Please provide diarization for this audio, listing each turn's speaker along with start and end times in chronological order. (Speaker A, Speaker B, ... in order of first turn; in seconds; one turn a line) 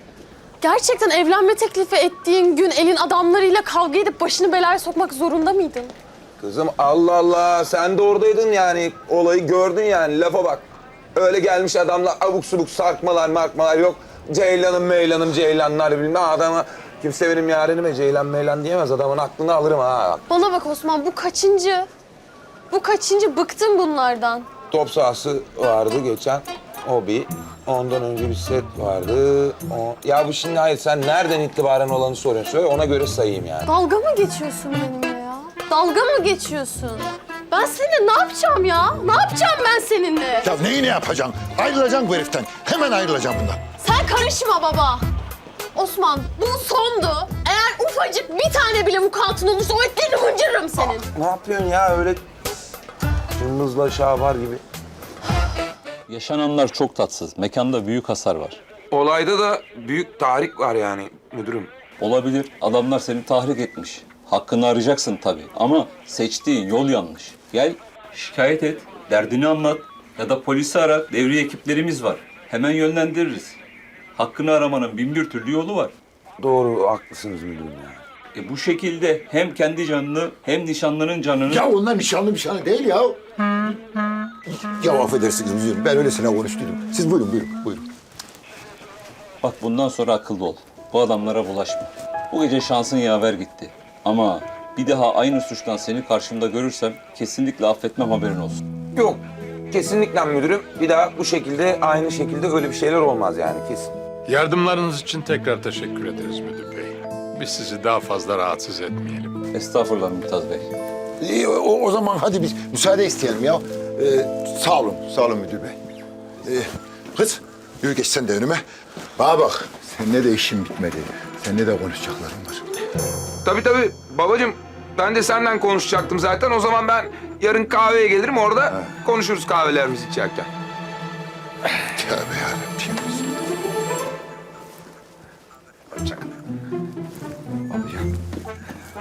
Speaker A: 0.6-5.9
Speaker B: 6.4-20.3
Speaker A: 20.3-21.9
Speaker A: 22.7-24.5
Speaker B: 24.7-33.7
Speaker A: 33.7-40.5
Speaker C: 40.4-43.6
Speaker A: 43.8-45.1
Speaker A: 45.8-51.0
Speaker B: 51.0-52.2
Speaker B: 53.4-54.6
Speaker D: 56.1-58.6
Speaker B: 58.9-61.7
Speaker D: 62.0-73.6
Speaker D: 74.2-75.9
Speaker B: 76.4-78.0
Speaker D: 78.3-81.7
Speaker C: 81.5-83.2
Speaker C: 84.6-87.9
Speaker D: 89.4-98.6
Speaker B: 98.9-103.9
Speaker E: 104.3-109.4
Speaker D: 109.5-110.7
Speaker C: 111.2-115.8
Speaker C: 116.4-118.6
Speaker C: 119.2-122.6
Speaker B: 123.4-130.5
Speaker C: 131.9-133.3
Speaker C: 137.7-138.0